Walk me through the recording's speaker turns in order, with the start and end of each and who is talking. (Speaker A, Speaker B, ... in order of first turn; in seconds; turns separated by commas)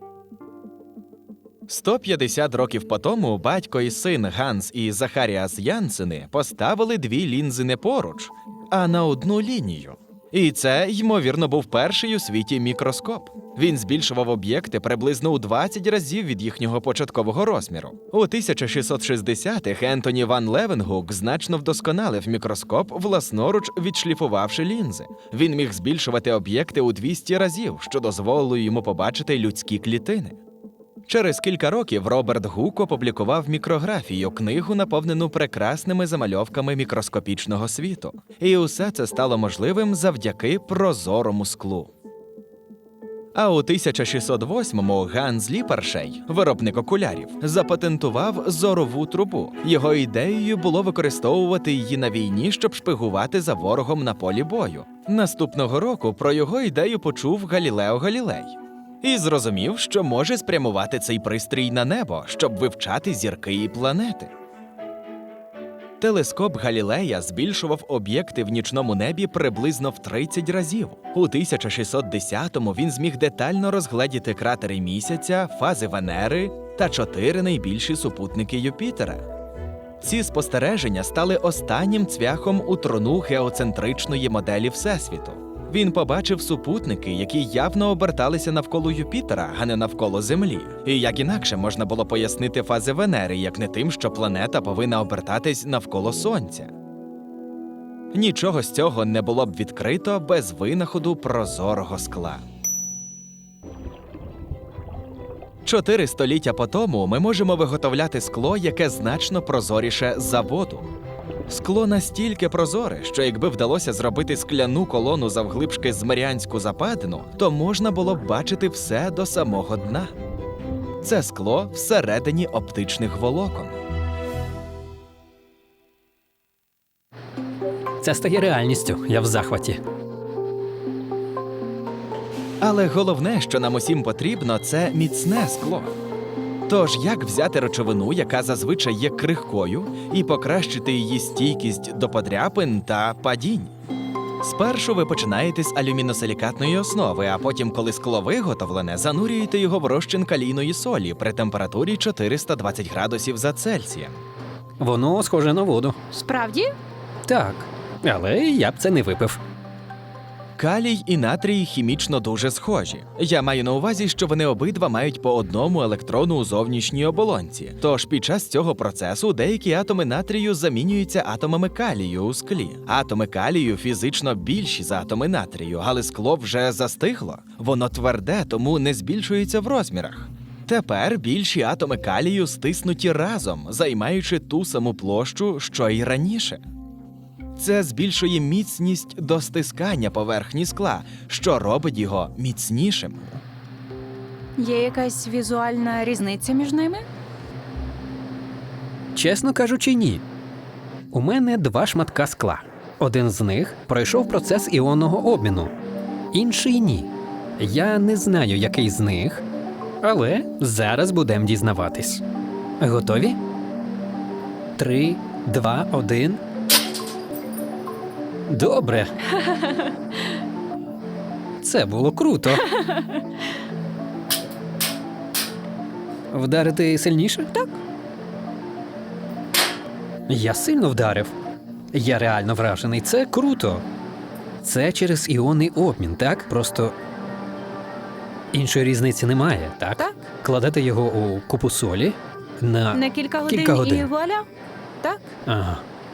Speaker A: 1.7-30.4, Speaker A: 31.1-41.9, Speaker A: 43.3-64.3, Speaker A: 66.0-79.2, Speaker A: 80.0-96.7, Speaker A: 98.1-102.4, Speaker A: 105.6-110.9, Speaker A: 111.5-120.1, Speaker A: 121.0-123.8, Speaker B: 128.0-129.8, Speaker A: 132.6-135.9, Speaker A: 136.7-143.7, Speaker A: 144.4-154.2, Speaker B: 154.8-156.0, Speaker C: 156.1-156.7, Speaker B: 157.3-159.4, Speaker A: 160.6-186.6, Speaker A: 187.6-193.4, Speaker C: 194.6-197.1, Speaker B: 199.1-200.2, Speaker B: 201.1-205.7, Speaker B: 206.3-209.4, Speaker B: 210.0-212.2, Speaker B: 212.8-213.4, Speaker B: 214.8-216.4, Speaker B: 218.5-219.1, Speaker C: 219.4-219.8, Speaker B: 221.6-222.7, Speaker C: 222.7-223.2, Speaker B: 226.3-227.8, Speaker B: 230.3-231.3, Speaker B: 231.9-233.8, Speaker B: 234.6-236.9, Speaker B: 238.5-244.1, Speaker C: 240.0-240.3, Speaker C: 242.9-244.4, Speaker C: 245.0-245.3, Speaker B: 245.4-245.8